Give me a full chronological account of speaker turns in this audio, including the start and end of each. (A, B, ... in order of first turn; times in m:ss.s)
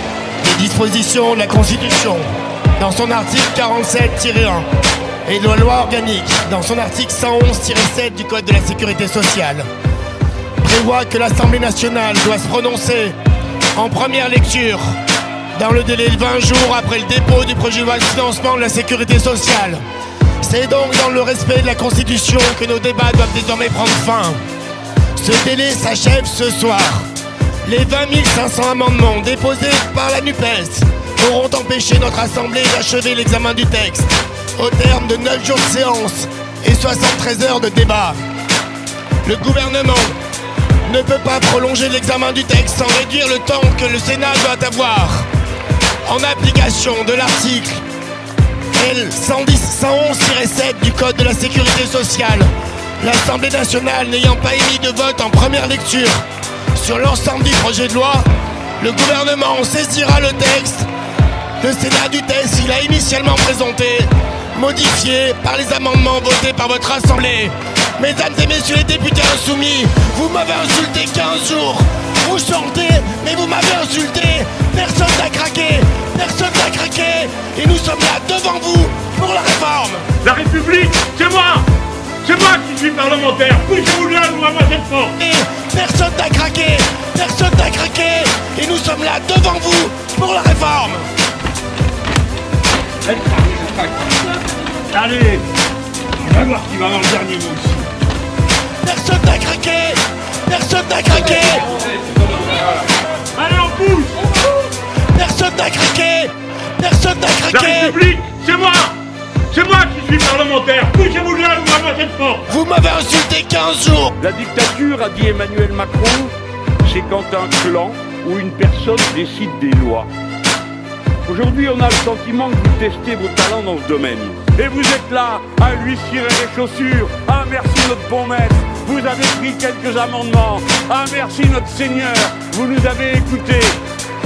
0:00.4-0:02.2 A
0:02.8-0:04.6 A
0:05.2-0:09.7 A
0:10.6-0:13.1 A
0:13.7-0:14.9 A
0:15.6-0:19.8 A
0:20.4-0:24.4 A
0:25.2-0:27.1 A
0:27.6-0:38.2 A
0:39.2-0:40.1 A
0:40.8-0:45.2 A
0:46.0-0:47.8 A
0:48.7-0:52.5 A
0:53.0-0:56.2 A
0:56.7-0:58.2 A
0:58.8-1:00.9 A
1:01.6-1:20.1 A
1:20.2-1:21.7 B
1:22.2-1:25.1 B
1:25.2-1:31.0 A
1:33.0-1:33.9 C
1:34.9-1:35.4 C
1:36.2-1:37.8 C
1:38.8-1:41.6 A
1:43.3-1:44.2 B
1:45.1-1:48.0 A
1:47.5-1:49.0 B
1:49.5-1:52.4 B
1:52.5-1:54.2 A
1:54.2-2:00.1 C
2:01.2-2:13.8 C